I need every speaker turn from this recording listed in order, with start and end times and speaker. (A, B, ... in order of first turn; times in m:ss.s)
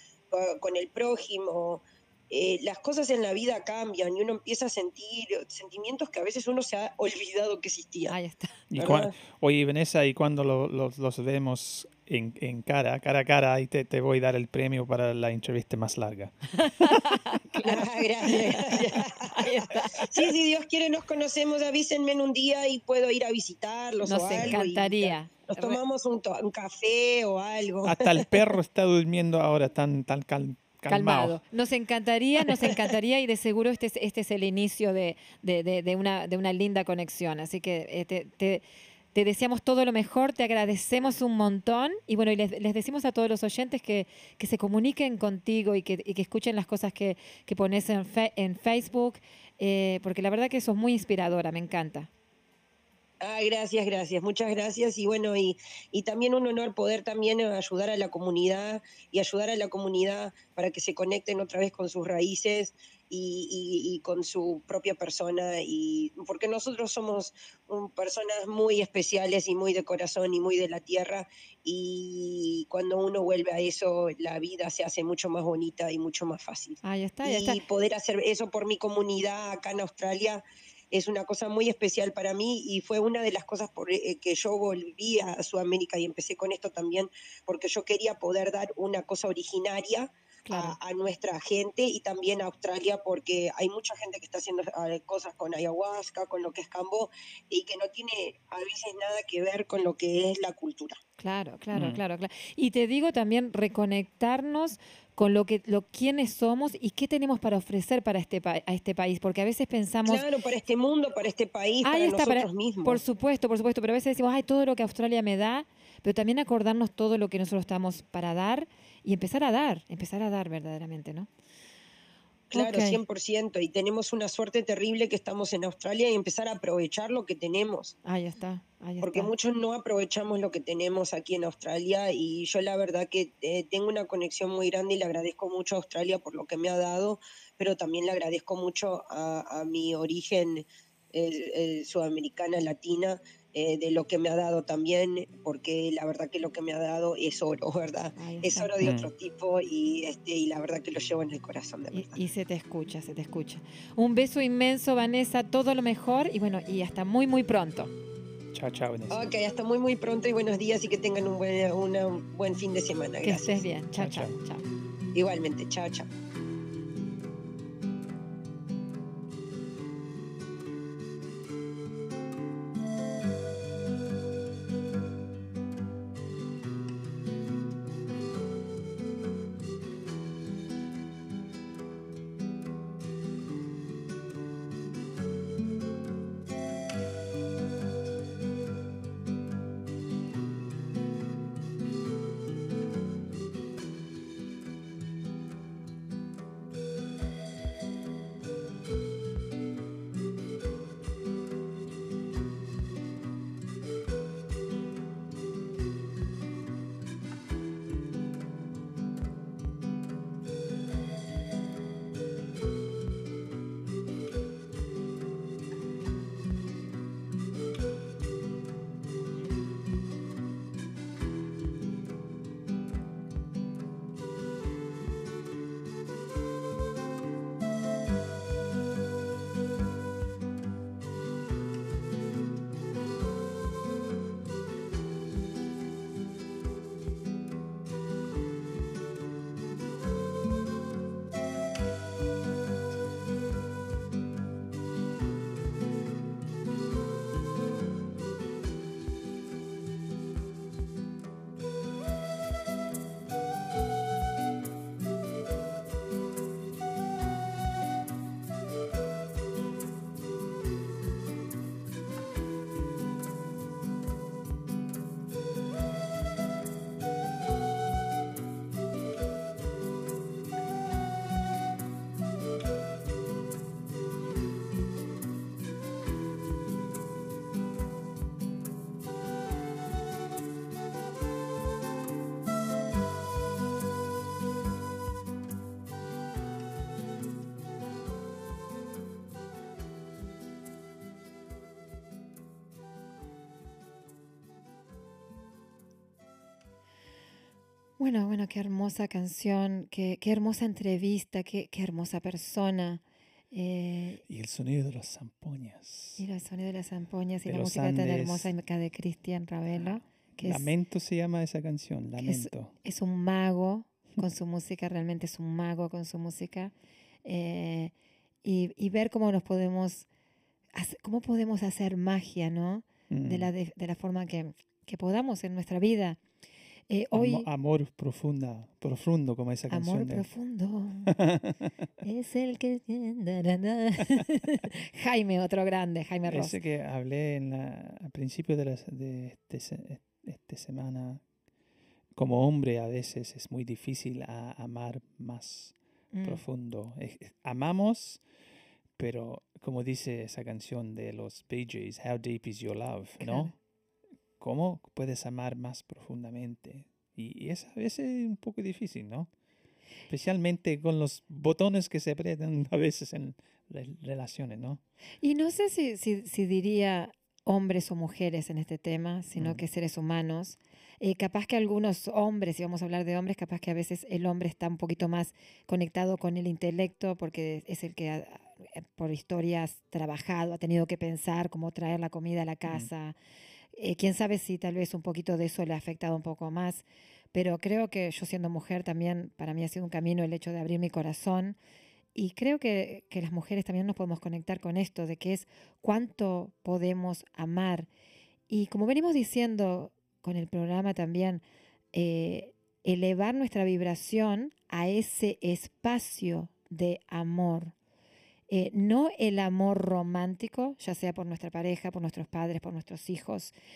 0:00.3-0:08.2 A
0:08.1-0:08.6 B
0:08.7-0:17.3 C
0:08.8-0:09.1 A
0:16.6-0:18.8 B
0:17.6-0:28.3 A
0:19.4-0:20.1 B
0:24.0-0:25.8 B
0:27.8-0:31.4 C
0:30.9-0:52.1 B
0:53.2-1:41.0 A
1:16.8-1:17.6 B
1:30.5-1:30.8 B
1:41.2-1:50.2 B
1:41.8-1:42.0 C
1:50.1-1:53.0 A
1:51.8-2:01.3 B
2:02.5-2:08.0 A
2:02.5-2:03.0 B
2:08.0-2:09.3 B
2:09.0-2:32.2 A
2:28.2-2:28.7 B
2:28.8-2:29.1 C
2:31.9-2:37.9 B
2:38.5-2:39.3 C
2:39.1-2:43.6 A
2:43.2-2:44.7 B
2:44.0-2:44.4 C
2:45.1-2:46.1 A
4:58.0-5:04.2 B
5:04.3-5:06.2 C
5:06.2-5:10.7 B
5:07.5-5:08.5 C
5:09.7-5:12.7 C
5:12.2-5:16.7 B
5:17.2-5:20.1 B
5:20.7-5:26.2 B
5:23.1-5:23.5 C
5:26.9-5:27.5 B
5:27.1-5:30.2 C
5:29.7-5:31.1 B
5:31.1-5:31.7 C
5:32.0-5:36.6 B
5:36.3-5:41.2 C
5:42.2-5:48.2 C
5:46.1-5:46.4 B
5:49.0-5:53.6 C
5:53.2-5:53.5 B
5:54.4-5:59.3 C
6:00.1-6:04.8 C
6:05.2-6:23.2 B
6:09.4-6:09.6 C
6:23.7-6:31.6 B
6:32.2-6:37.9 B
6:38.5-6:47.7 B
6:48.5-6:53.5 B